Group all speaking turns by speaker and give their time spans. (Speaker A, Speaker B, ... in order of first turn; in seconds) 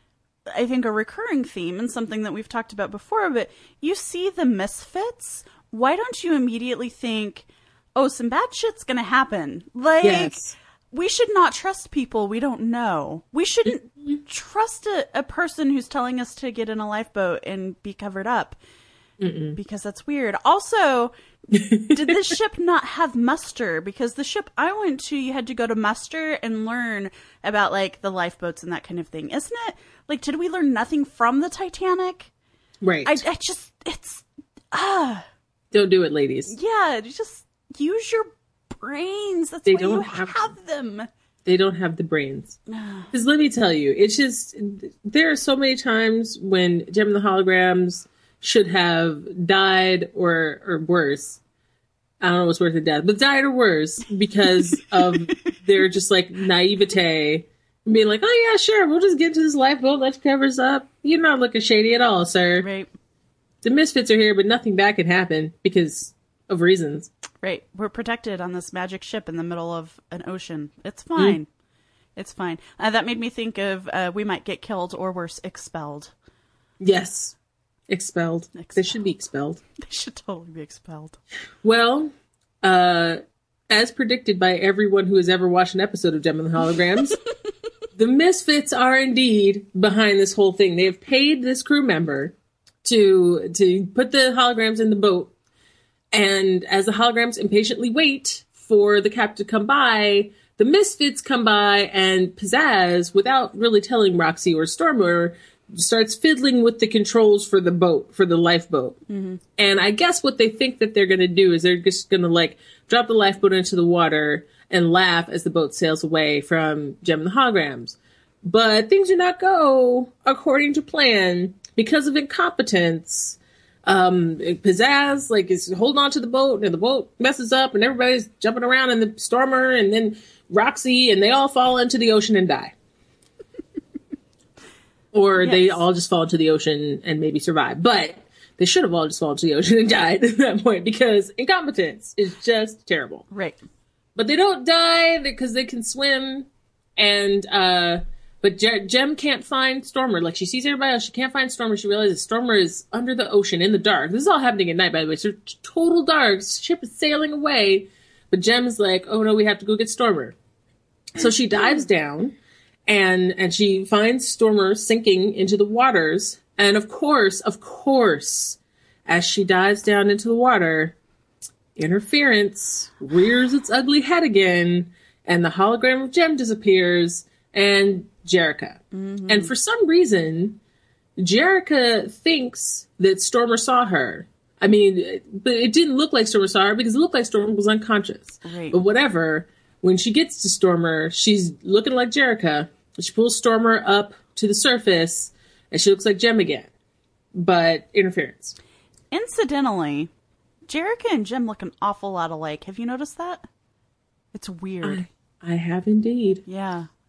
Speaker A: 0.5-18.6, 19.6-21.1, 21.9-32.3, 33.0-35.3, 36.5-41.1, 42.7-43.1, 54.6-55.3, 62.6-62.9, 67.4-71.5, 72.2-76.1, 78.6-78.8, 79.8-81.2, 109.1-109.4, 135.4-135.8, 143.3-143.6, 178.9-179.5, 188.4-188.8, 199.1-200.1, 200.7-203.5, 204.3-205.1, 206.5-206.9
Speaker B: 10.0-10.5, 19.2-19.6, 21.5-22.1, 32.8-33.2, 35.7-36.5, 39.7-40.5, 41.5-42.6, 43.1-51.4, 52.2-62.7, 63.6-67.1, 76.8-77.4, 77.9-79.6, 81.6-87.2, 88.0-95.3, 96.1-109.0, 109.6-132.8, 135.1-143.3, 144.2-160.4, 161.2-171.0, 171.8-180.6, 181.2-196.7, 197.3-198.6, 204.8-206.4